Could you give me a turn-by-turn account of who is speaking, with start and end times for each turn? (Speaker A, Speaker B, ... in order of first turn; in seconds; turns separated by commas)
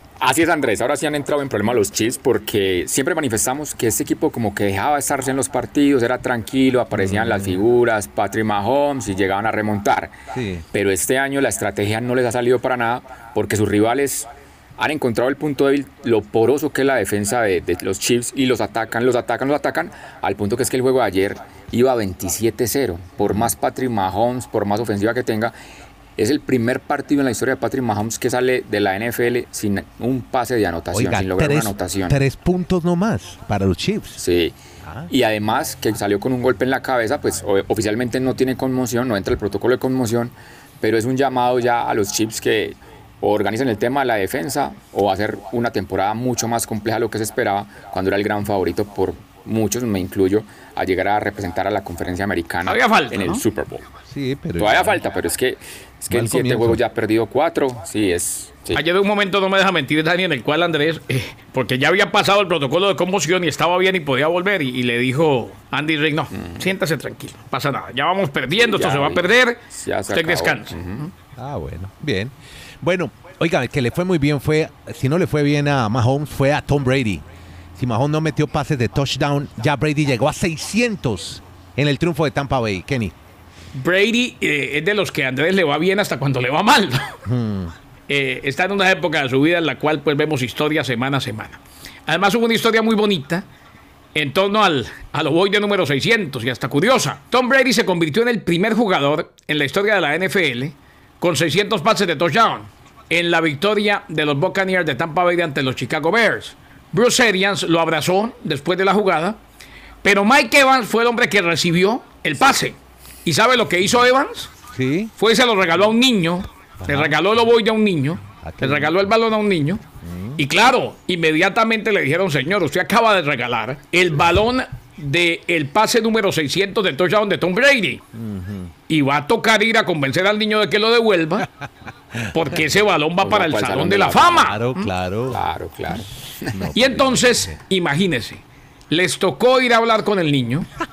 Speaker A: 0.2-10.2, Speaker B: 6.9-7.6, Speaker B: 10.3-10.6, Speaker A: 10.7-25.5, Speaker A: 26.2-32.2, Speaker B: 30.9-34.2, Speaker A: 34.2-53.9, Speaker B: 34.8-35.1, Speaker C: 52.6-53.4, Speaker B: 54.1-55.0, Speaker A: 54.6-58.8, Speaker B: 56.1-56.8, Speaker C: 58.7-70.8, Speaker A: 66.3-66.7, Speaker A: 68.6-71.1, Speaker B: 71.3-77.2, Speaker B: 77.8-83.1, Speaker C: 83.7-87.2, Speaker B: 87.2-87.7, Speaker C: 88.1-93.5, Speaker C: 94.1-109.4, Speaker C: 110.0-114.5, Speaker B: 114.7-115.1, Speaker C: 115.2-119.8, Speaker B: 116.8-117.2, Speaker B: 118.4-118.9, Speaker B: 120.0-120.4, Speaker C: 120.4-128.0, Speaker B: 128.1-128.7, Speaker C: 128.9-131.5, Speaker C: 132.3-134.9, Speaker A: 133.2-134.5, Speaker B: 134.3-135.4, Speaker A: 135.3-136.6, Speaker B: 136.5-137.6, Speaker C: 136.7-140.7